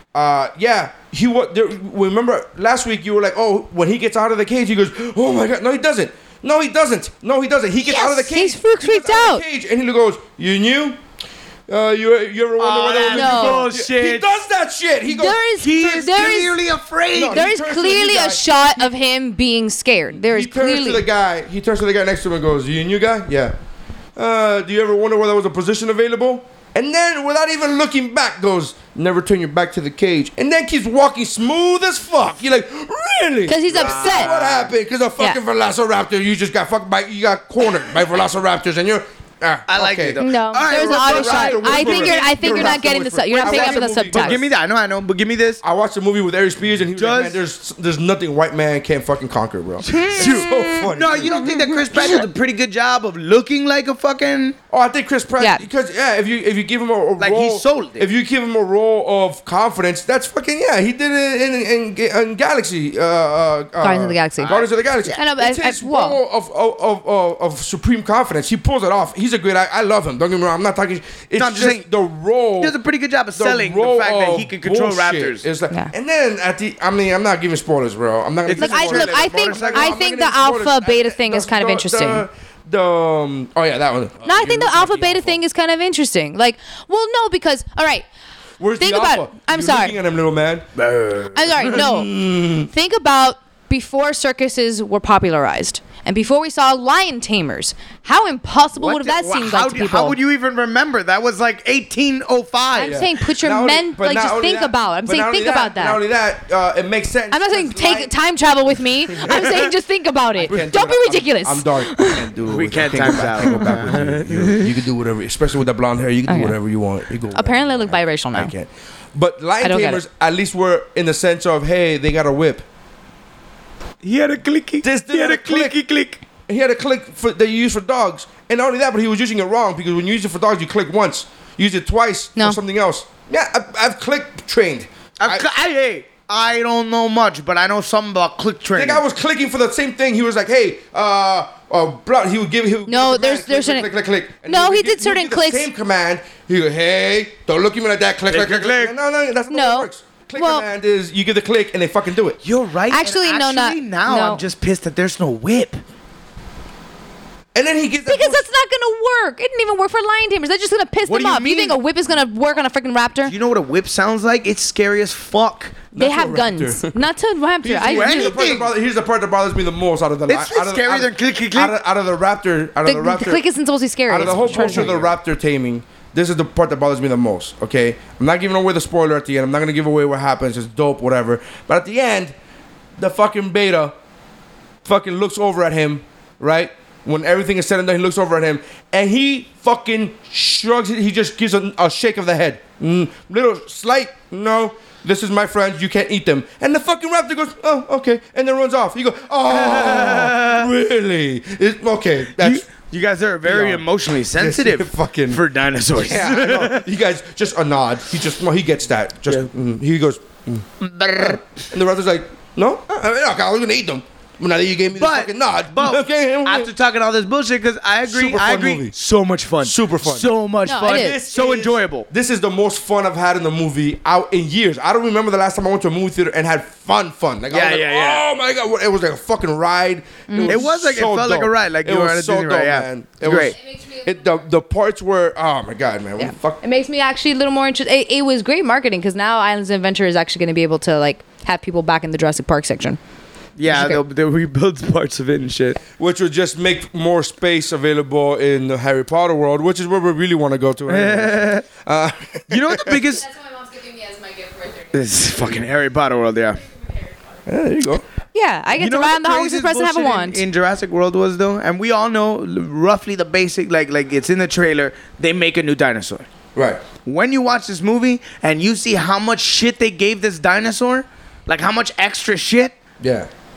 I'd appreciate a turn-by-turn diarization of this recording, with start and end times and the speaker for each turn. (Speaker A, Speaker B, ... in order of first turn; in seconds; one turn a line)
Speaker A: 0.1-11.0
Speaker B: 7.8-9.4
Speaker A: 11.7-15.4
Speaker C: 12.6-14.4
Speaker B: 13.1-13.7
Speaker B: 15.1-16.6
Speaker C: 15.6-17.4
Speaker A: 17.1-18.4
Speaker B: 17.3-21.1
Speaker A: 20.1-23.6
Speaker A: 24.2-44.5
Speaker B: 33.5-34.3
Speaker C: 33.7-34.7
Speaker C: 39.7-42.9
Speaker B: 40.2-44.4
Speaker C: 43.4-45.6
Speaker A: 45.6-51.6
Speaker C: 47.0-47.4
Speaker C: 49.8-54.6
Speaker B: 49.9-52.1
Speaker A: 54.7-72.8
Speaker C: 57.2-58.1
Speaker B: 63.8-64.6
Speaker C: 64.4-64.7
Speaker B: 65.1-66.2
Speaker C: 71.4-71.9
Speaker C: 72.6-75.5
Speaker A: 73.4-85.4
Speaker C: 78.5-80.0
Speaker B: 78.6-82.2
Speaker B: 84.2-88.1
Speaker A: 88.6-90.7
Speaker B: 88.8-90.0
Speaker C: 90.8-91.8
Speaker B: 91.3-92.1
Speaker A: 91.6-92.7
Speaker B: 92.6-100.2
Speaker C: 98.8-103.0
Speaker B: 102.8-106.0
Speaker A: 102.8-108.1
Speaker B: 107.3-112.2
Speaker C: 109.2-109.5
Speaker A: 110.4-122.7
Speaker C: 112.5-114.7
Speaker B: 116.3-116.6
Speaker B: 117.3-118.5
Speaker B: 119.6-120.0
Speaker C: 124.0-126.2
Speaker A: 124.8-125.8
Speaker A: 126.5-135.5
Speaker C: 135.2-139.0
Speaker A: 138.8-152.4
Speaker B: 142.9-143.9
Speaker B: 144.5-145.7
Speaker C: 148.3-148.9
Speaker B: 149.5-150.7
Speaker C: 152.4-155.8
Speaker B: 152.9-154.4
Speaker A: 157.5-158.4
Speaker B: 158.1-163.3
Speaker C: 161.1-161.8
Speaker C: 163.2-165.9
Speaker A: 165.9-167.0
Speaker B: 166.0-168.4
Speaker A: 167.6-173.4
Speaker C: 167.8-168.7
Speaker C: 170.3-171.8
Speaker B: 172.9-174.9
Speaker A: 174.1-182.3
Speaker C: 174.2-175.1
Speaker A: 183.0-183.9
Speaker A: 184.8-202.7
Speaker C: 199.5-200.7
Speaker C: 202.4-206.9
Speaker A: 203.4-205.4
Speaker A: 205.9-210.7
Speaker C: 210.8-211.5
Speaker A: 211.2-216.7
Speaker C: 214.9-222.1
Speaker A: 218.1-218.9
Speaker A: 219.6-220.3
Speaker B: 220.7-221.2
Speaker A: 220.8-236.6
Speaker C: 227.5-228.3
Speaker B: 230.3-230.6
Speaker C: 230.4-233.6
Speaker B: 233.8-234.2
Speaker B: 236.2-243.0
Speaker C: 243.6-245.8
Speaker B: 243.7-244.0
Speaker A: 246.0-253.0
Speaker C: 250.9-251.7
Speaker C: 252.5-253.3
Speaker B: 253.2-255.0
Speaker C: 254.9-256.6
Speaker A: 257.5-258.1
Speaker B: 258.3-260.4
Speaker C: 258.7-266.3
Speaker A: 266.6-266.8
Speaker C: 267.1-272.8
Speaker A: 273.0-273.3